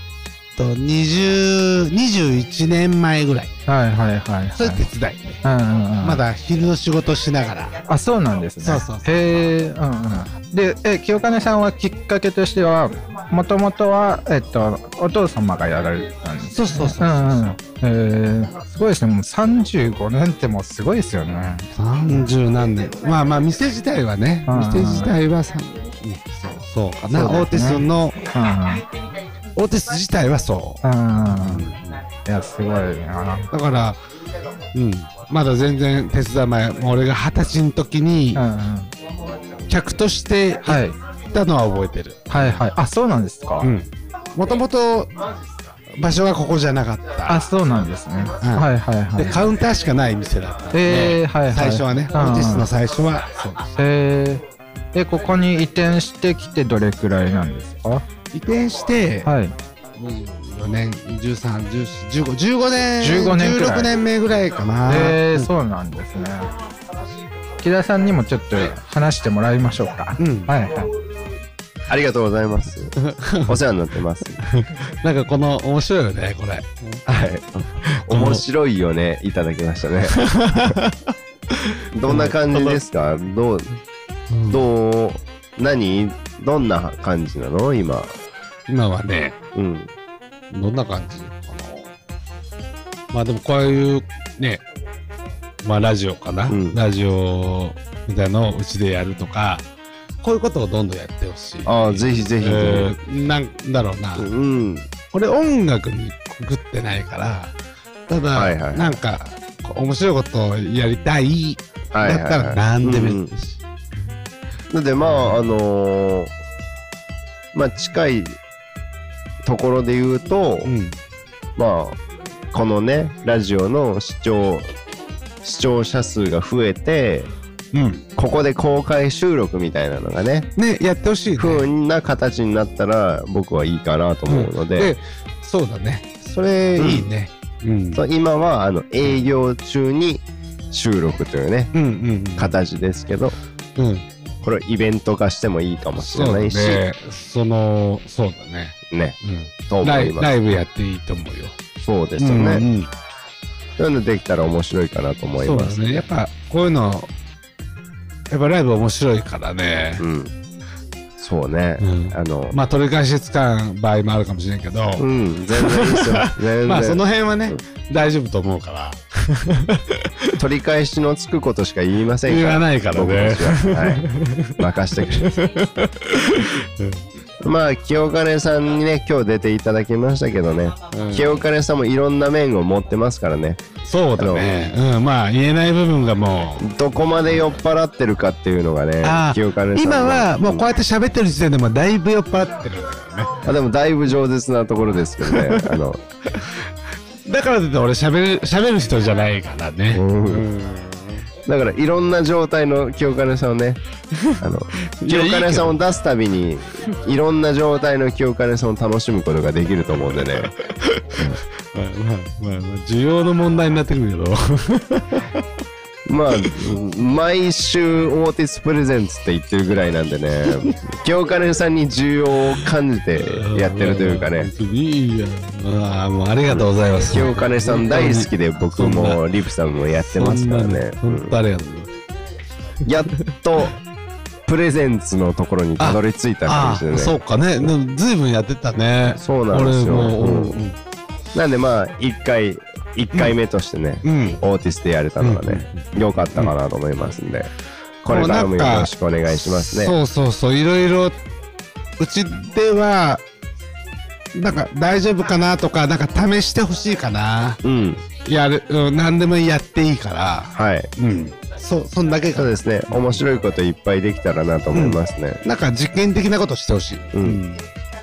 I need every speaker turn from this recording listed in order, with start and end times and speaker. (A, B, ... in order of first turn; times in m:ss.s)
0:00.6-0:03.5 A
0:03.7-0:04.8 B
0:04.6-0:05.4 A
0:05.4-0:06.2 B
0:06.0-0:07.8 A
0:07.9-0:22.3 B
0:08.6-0:09.1 A
0:16.5-0:17.5 A
0:21.7-0:28.2 A
0:24.5-0:25.1 B
0:27.0-0:28.8 B
0:29.5-0:32.0 A
0:30.8-0:31.6 B
0:32.2-0:33.5 B
0:33.5-0:34.0 A
0:34.7-0:38.4 A
0:38.3-0:38.9 B
0:39.7-0:42.7 A
0:40.6-0:40.9 B
0:42.3-0:43.7 B
0:43.6-0:45.1 A
0:45.9-0:47.4 A
0:47.3-0:49.6 B
0:48.4-0:53.7 A
0:50.7-0:52.7 B
0:53.8-0:54.4 B
0:54.9-0:58.0 B
0:58.3-0:59.3 A
0:59.2-0:59.5 B
1:00.0-1:05.5 A
1:03.0-1:03.9 B
1:04.9-1:06.5 B
1:07.6-1:10.9 B
1:10.2-1:10.5 A
1:11.9-1:12.9 C
1:13.0-1:13.6 A
1:13.4-1:14.4 C
1:14.4-1:17.0 A
1:17.1-1:20.8 C
1:17.8-1:18.4 A
1:20.1-1:22.8 A
1:21.9-1:23.7 C
1:24.3-1:24.6 A
1:24.5-1:28.1 C
1:28.7-1:29.4 A
1:29.5-1:29.9 C
1:30.5-1:31.9 A
1:33.1-1:34.6 A
1:35.6-1:39.7 A
1:36.5-1:36.8 C
1:40.2-1:44.3 A
1:41.6-1:43.0 C
1:44.2-1:44.9 C
1:45.0-1:47.5 A
1:48.1-1:53.6 A
1:48.3-1:49.0 C
1:51.9-1:53.3 C
1:54.7-1:56.3 C
1:55.0-1:55.4 A
1:57.5-1:58.4 C
1:59.4-2:00.7 C
2:00.6-2:00.9 A
2:01.6-2:02.0 C
2:02.5-2:04.7 C
2:05.4-2:07.3 C
2:07.7-2:08.0 A
2:08.2-2:10.5 C
2:10.6-2:11.7 A
2:11.4-2:14.9 C
2:14.3-2:18.0 A
2:16.8-2:17.1 C
2:17.9-2:21.7 C
2:21.7-2:22.6 A
2:22.4-2:23.3 C
2:23.8-2:24.0 A
2:24.4-2:26.8 C
2:26.0-2:31.6 A
2:28.9-2:30.3 C
2:31.8-2:32.6 C
2:32.2-2:32.9 A
2:33.8-2:36.0 C
2:35.4-2:37.1 A
2:38.3-2:40.0 A
2:40.0-2:40.3 C
2:41.2-2:42.6 C
2:41.8-2:50.4 A
2:45.0-2:47.6 C
2:50.4-2:54.1 C
2:52.2-2:57.0 A
2:54.6-2:55.3 C
2:57.4-3:03.6 C
3:00.9-3:01.4 A
3:03.8-3:06.7 A
3:04.2-3:04.6 C
3:06.6-3:10.7 C
3:09.0-3:13.4 A
3:13.4-3:16.0 C
3:15.2-3:16.7 A
3:17.2-3:21.2 A
3:19.9-3:20.4 C
3:21.4-3:23.8 C
3:24.1-3:25.7 A
3:24.4-3:30.5 C
3:30.3-3:35.4 A
3:36.1-3:44.5 C
3:43.2-3:49.2 A
3:46.5-3:51.4 C
3:50.0-3:51.9 A
3:52.8-3:53.8 C
3:54.5-3:57.2 C
3:55.8-4:00.8 A
3:59.2-4:00.6 C
4:01.3-4:07.5 C
4:04.0-4:04.4 A
4:05.2-4:06.5 A
4:08.0-4:09.9 C
4:08.1-4:11.2 A
4:12.0-4:13.2 A
4:14.3-4:17.6 A
4:17.6-4:18.0 C
4:18.1-4:23.2 A
4:20.5-4:20.9 C
4:22.3-4:25.4 C
4:24.7-4:27.7 A
4:27.1-4:27.4 C